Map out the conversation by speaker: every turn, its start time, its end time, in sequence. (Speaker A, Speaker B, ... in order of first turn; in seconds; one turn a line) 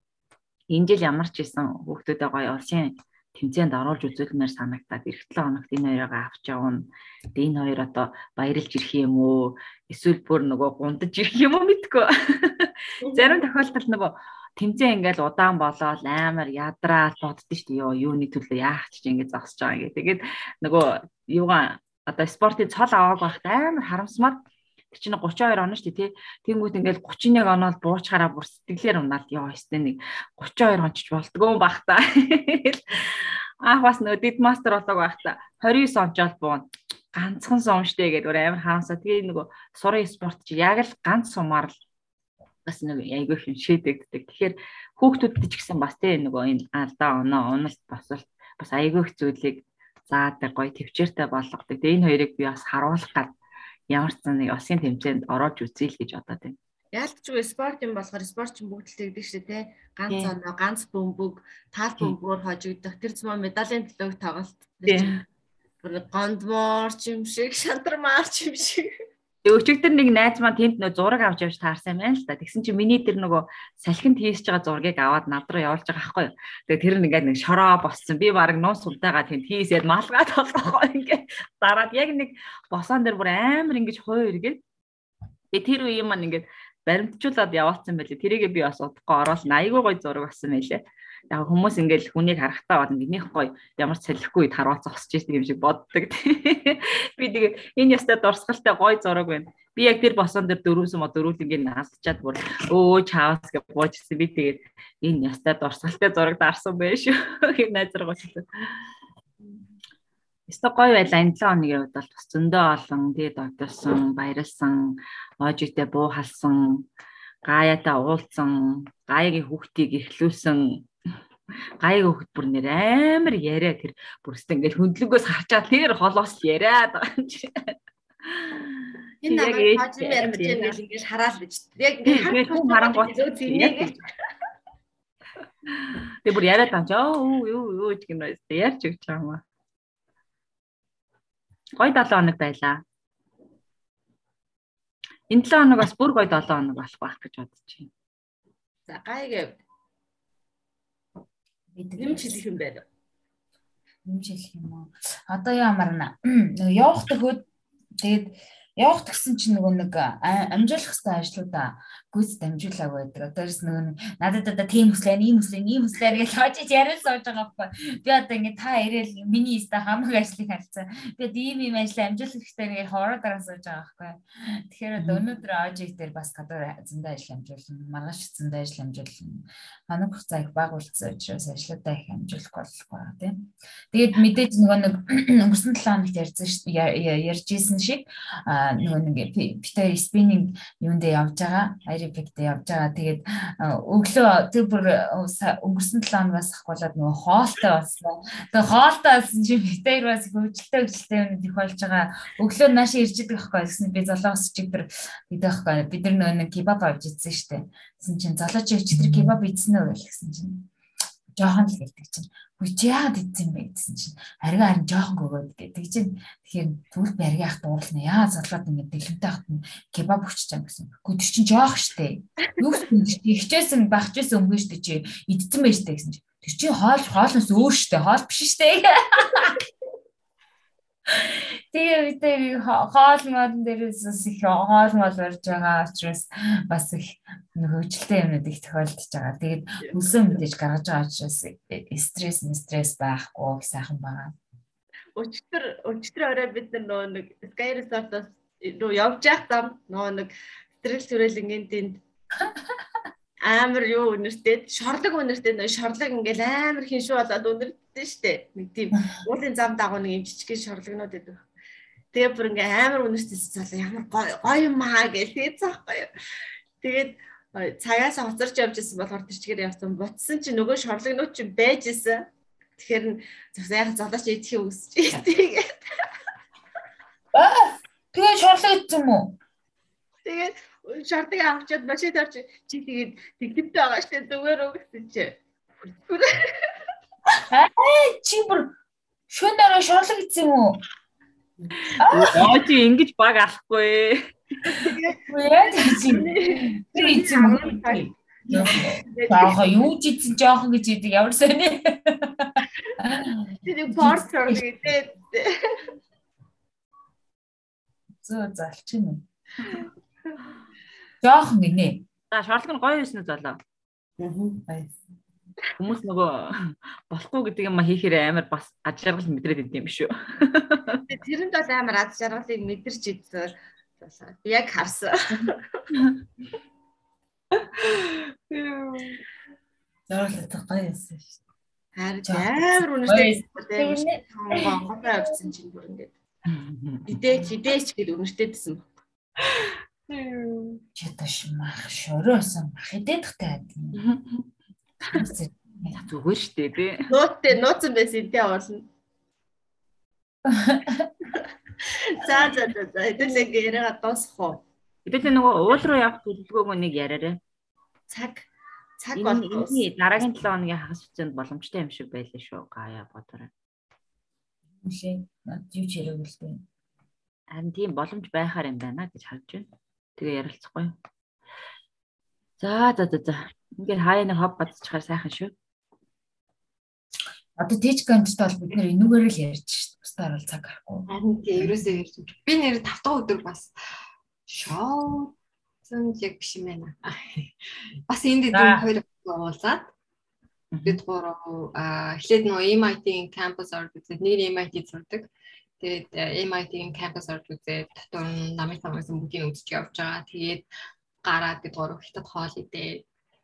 Speaker A: 0.7-41.8
Speaker B: 13.0-13.4
Speaker A: 42.7-53.4
Speaker A: 53.9-56.6
Speaker B: 56.9-65.2
Speaker A: 64.9-65.2
Speaker B: 65.8-68.9
Speaker A: 69.5-84.6
Speaker A: 85.5-108.5
Speaker A: 110.5-116.9
Speaker A: 117.4-120.9
Speaker A: 121.8-127.7
Speaker A: 128.2-130.8
Speaker B: 129.2-134.0
Speaker A: 132.1-133.9
Speaker A: 135.9-139.4
Speaker A: 141.8-142.8
Speaker A: 145.3-147.9
Speaker B: 148.9-149.6
Speaker C: 151.7-152.4
Speaker B: 152.0-152.8
Speaker C: 154.1-157.5
Speaker C: 158.0-210.7
Speaker A: 175.0-175.2
Speaker C: 211.3-229.6
Speaker C: 231.2-244.3
Speaker B: 239.8-240.2
Speaker B: 245.2-250.3
Speaker B: 250.8-252.0
Speaker B: 253.4-261.4
Speaker B: 262.1-266.1
Speaker B: 266.8-272.3
Speaker B: 272.8-275.8
Speaker C: 277.3-279.4
Speaker B: 280.2-285.4
Speaker B: 286.1-286.7
Speaker C: 287.5-288.7
Speaker C: 289.3-290.8
Speaker C: 292.0-292.5
Speaker A: 292.1-294.3
Speaker B: 294.8-299.6
Speaker C: 295.3-304.6
Speaker D: 298.5-298.9
Speaker B: 303.6-305.5
Speaker C: 308.2-309.2
Speaker C: 311.2-312.1
Speaker A: 312.3-313.6
Speaker D: 314.2-315.0
Speaker A: 315.8-321.1
Speaker B: 321.1-325.8
Speaker E: 327.6-329.2
Speaker D: 330.1-331.4
Speaker B: 332.0-336.1
Speaker C: 332.2-334.8
Speaker A: 336.4-337.1
Speaker B: 337.1-338.9
Speaker E: 339.5-340.8
Speaker C: 341.0-344.0
Speaker A: 344.0-344.4
Speaker C: 345.1-346.0
Speaker A: 345.9-347.1
Speaker B: 347.1-348.9
Speaker C: 350.5-351.1
Speaker B: 351.8-354.6
Speaker A: 355.1-357.4
Speaker B: 358.1-359.8
Speaker A: 359.1-363.5
Speaker C: 364.8-366.6
Speaker A: 367.5-371.0
Speaker A: 372.6-375.5
Speaker C: 377.6-381.1
Speaker E: 381.1-383.8
Speaker E: 384.5-389.9
Speaker C: 388.5-388.9
Speaker A: 390.7-391.0
Speaker E: 390.9-400.7
Speaker E: 401.2-403.1